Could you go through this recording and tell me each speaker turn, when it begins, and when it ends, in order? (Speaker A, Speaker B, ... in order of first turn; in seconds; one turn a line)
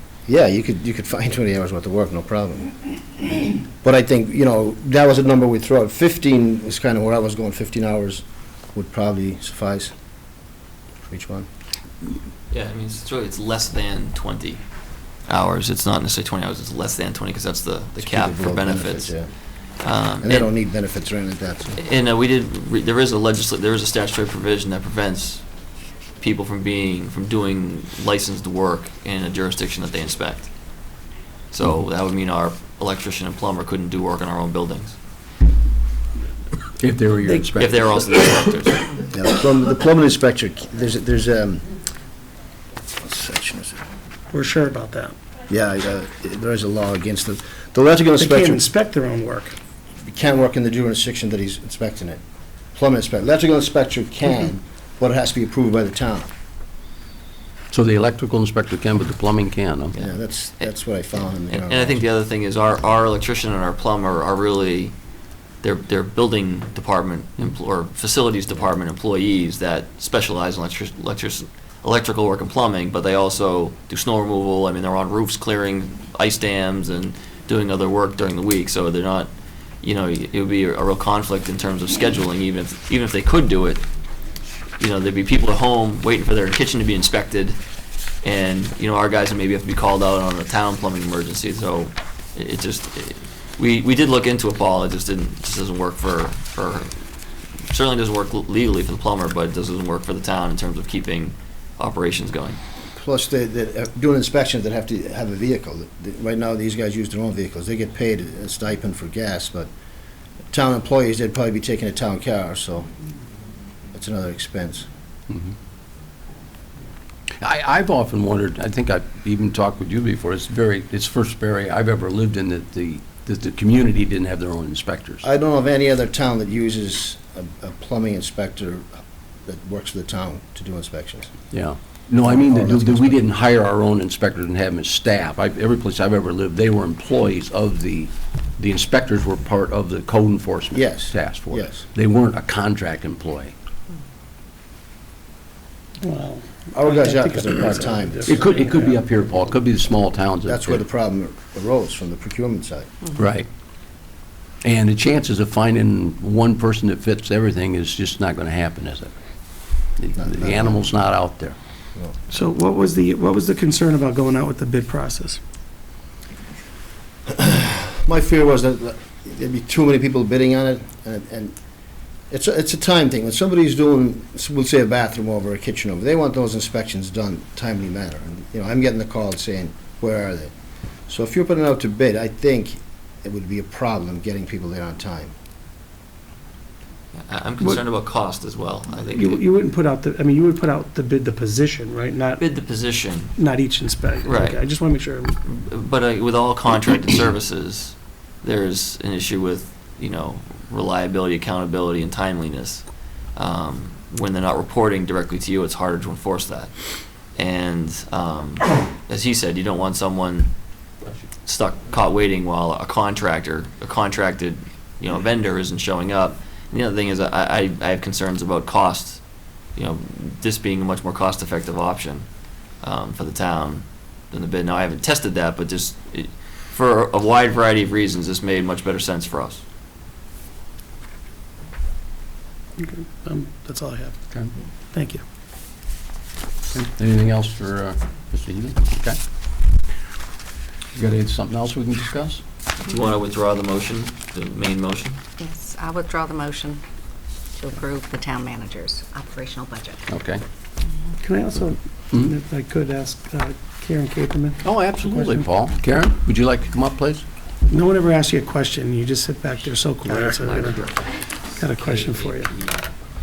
Speaker A: 0.3-2.8
Speaker A: 3.4-9.9
Speaker A: 11.0-11.5
Speaker B: 12.5-14.6
Speaker B: 15.3-19.1
Speaker A: 18.0-19.3
Speaker B: 19.8-20.5
Speaker A: 20.2-21.8
Speaker B: 21.8-25.4
Speaker B: 26.2-30.5
Speaker B: 31.5-35.0
Speaker C: 36.8-38.4
Speaker B: 37.6-38.9
Speaker A: 39.1-41.6
Speaker A: 43.0-43.8
Speaker D: 44.3-45.2
Speaker A: 45.5-48.6
Speaker D: 48.2-49.6
Speaker A: 50.0-52.2
Speaker A: 52.7-56.3
Speaker C: 57.7-60.0
Speaker B: 60.0-60.7
Speaker A: 60.0-62.0
Speaker B: 61.5-65.0
Speaker B: 65.6-79.3
Speaker B: 79.8-83.8
Speaker B: 84.8-87.6
Speaker B: 88.2-96.9
Speaker B: 97.7-102.6
Speaker A: 103.0-109.7
Speaker A: 110.5-112.9
Speaker A: 113.9-114.9
Speaker C: 117.4-125.2
Speaker A: 125.2-128.9
Speaker A: 129.5-131.3
Speaker C: 131.5-143.5
Speaker A: 132.3-133.2
Speaker A: 140.7-141.9
Speaker D: 146.0-149.0
Speaker A: 146.8-148.5
Speaker C: 148.3-150.8
Speaker A: 150.5-153.1
Speaker C: 153.2-153.5
Speaker C: 154.6-159.1
Speaker C: 160.0-161.6
Speaker A: 160.2-160.8
Speaker D: 162.3-165.4
Speaker A: 167.3-171.6
Speaker A: 172.3-180.5
Speaker A: 181.1-185.3
Speaker B: 187.2-189.4
Speaker D: 189.0-192.4
Speaker B: 192.4-193.3
Speaker D: 193.4-195.4
Speaker B: 194.2-194.6
Speaker B: 195.4-206.8
Speaker B: 207.3-210.5
Speaker B: 211.4-219.2
Speaker B: 219.8-222.3
Speaker B: 222.8-229.6
Speaker D: 232.8-234.2
Speaker D: 234.9-235.2
Speaker C: 236.7-239.2
Speaker C: 240.9-242.4
Speaker B: 242.8-245.2
Speaker E: 245.4-246.8
Speaker E: 247.6-250.0
Speaker C: 250.1-250.4
Speaker D: 251.2-255.5
Speaker C: 254.6-257.2
Speaker D: 257.7-260.8
Speaker B: 260.0-262.9
Speaker D: 261.6-262.5